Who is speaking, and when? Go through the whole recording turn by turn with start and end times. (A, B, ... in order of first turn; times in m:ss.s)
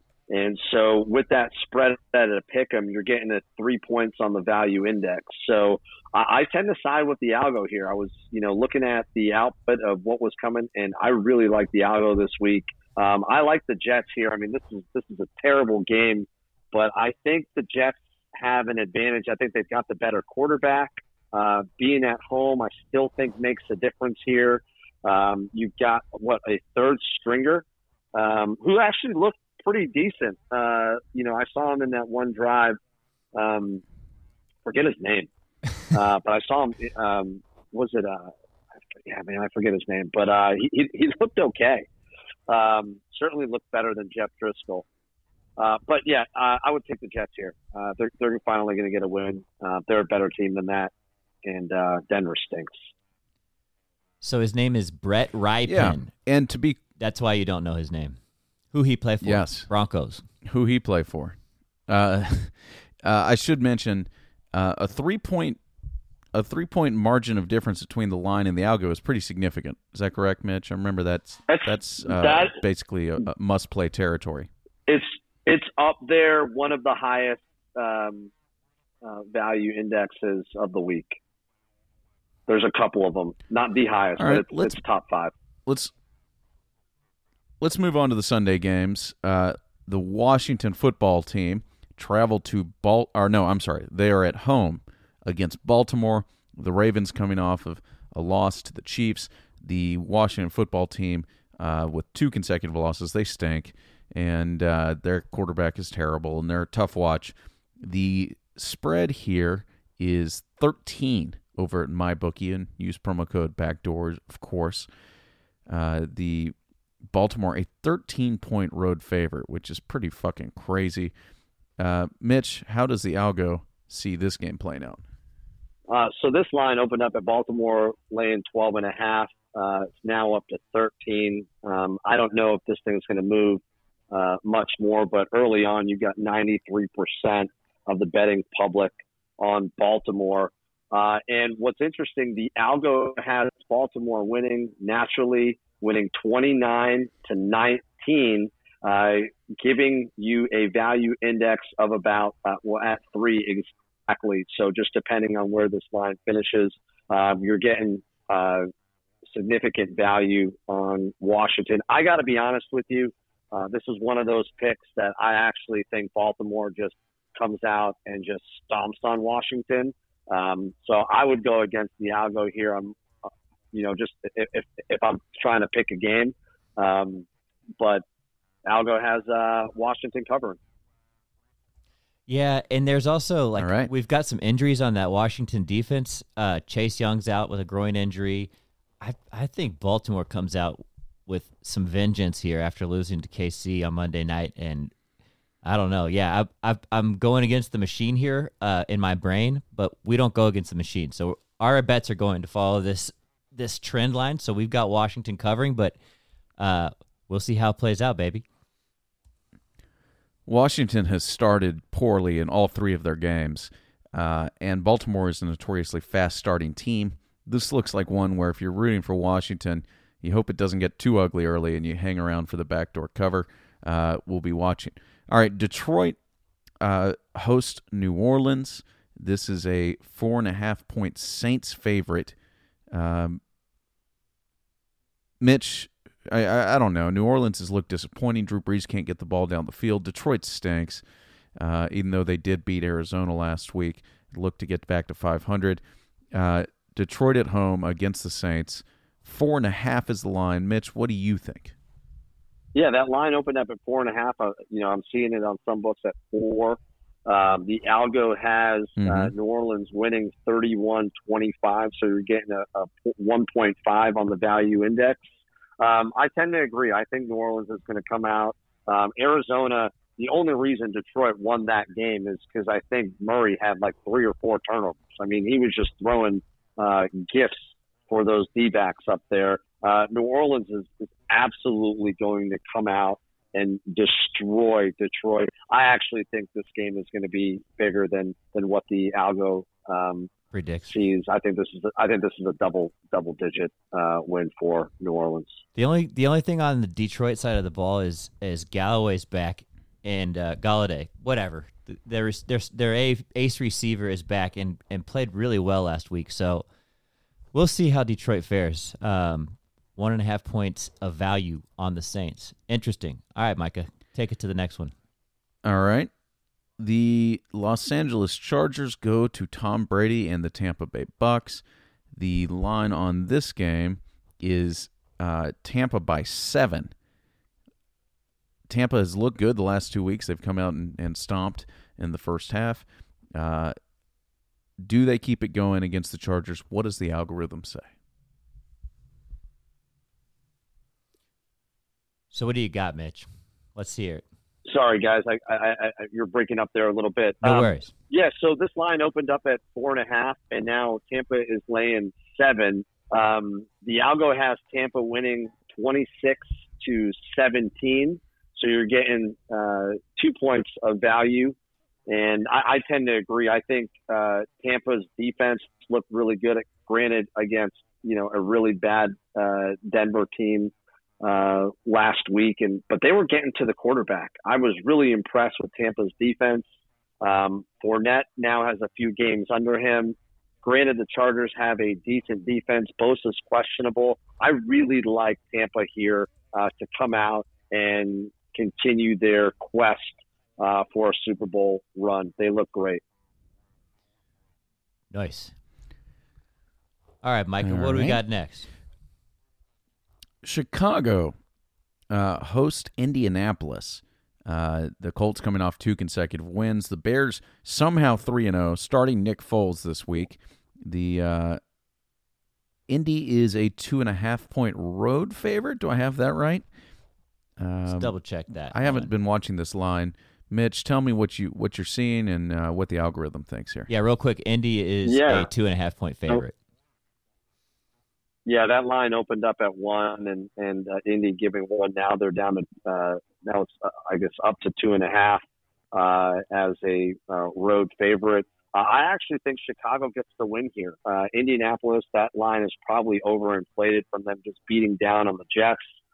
0:00.3-0:32.8 A
0:33.3-0:33.8 A
0:34.6-0:35.3 A
0:35.9-0:38.3 A
0:38.9-0:41.9 A
0:42.5-0:44.8 A
0:45.6-0:50.9 A
0:51.4-0:52.9 A
0:54.2-0:56.1 B
0:55.7-0:56.8 C
0:57.0-0:58.2 B
0:58.7-1:00.2 B
0:59.2-0:59.7 C
1:00.4-1:01.4 C
1:01.9-1:05.6 C
1:06.3-1:14.5 C
1:11.5-1:12.6 A
1:14.9-1:18.3 A
1:19.0-1:21.2 A
1:22.5-1:25.3 A
1:24.2-1:24.8 C
1:25.7-1:25.9 C
1:27.6-1:54.9 C
1:55.7-1:56.6 C
1:57.1-2:01.1 C
2:01.8-2:05.0 C
2:05.9-2:38.7 A
2:39.3-2:53.0 A
2:53.7-2:57.3 A
2:57.8-2:58.0 A
2:58.7-3:00.6 A
3:02.3-3:14.9 B
3:03.6-3:03.9 C
3:15.6-3:26.0 B
3:26.6-3:28.4 B
3:30.5-3:46.2 C
3:46.8-3:52.4 C
3:52.9-3:53.4 C
3:55.4-4:01.0 C
4:01.6-4:05.8 C
4:06.3-4:11.7 C
4:12.7-4:25.2 A
4:19.0-4:19.3 C
4:25.8-4:50.3 A
4:50.5-4:51.0 B
4:50.9-4:55.6 A
4:55.8-5:06.7 B
5:07.5-5:14.9 B
5:15.6-5:16.1 C
5:16.8-5:21.6 C
5:22.2-5:26.9 C
5:28.7-5:33.8 C
5:34.8-5:37.9 C
5:42.3-5:44.2 B
5:44.7-6:01.6 A
5:47.4-5:47.9 B
6:02.1-6:16.6 A
6:17.2-6:33.0 A
6:35.1-6:35.5 B
6:37.2-6:38.7 B
6:37.6-6:38.2 C
6:40.4-6:41.4 C
6:42.1-6:51.6 C
6:52.9-6:56.6 C
6:57.6-6:58.2 C
6:57.9-6:59.1 B
6:58.7-7:03.9 C
7:03.9-7:06.6 B
7:05.0-7:05.5 A
7:08.5-7:25.8 A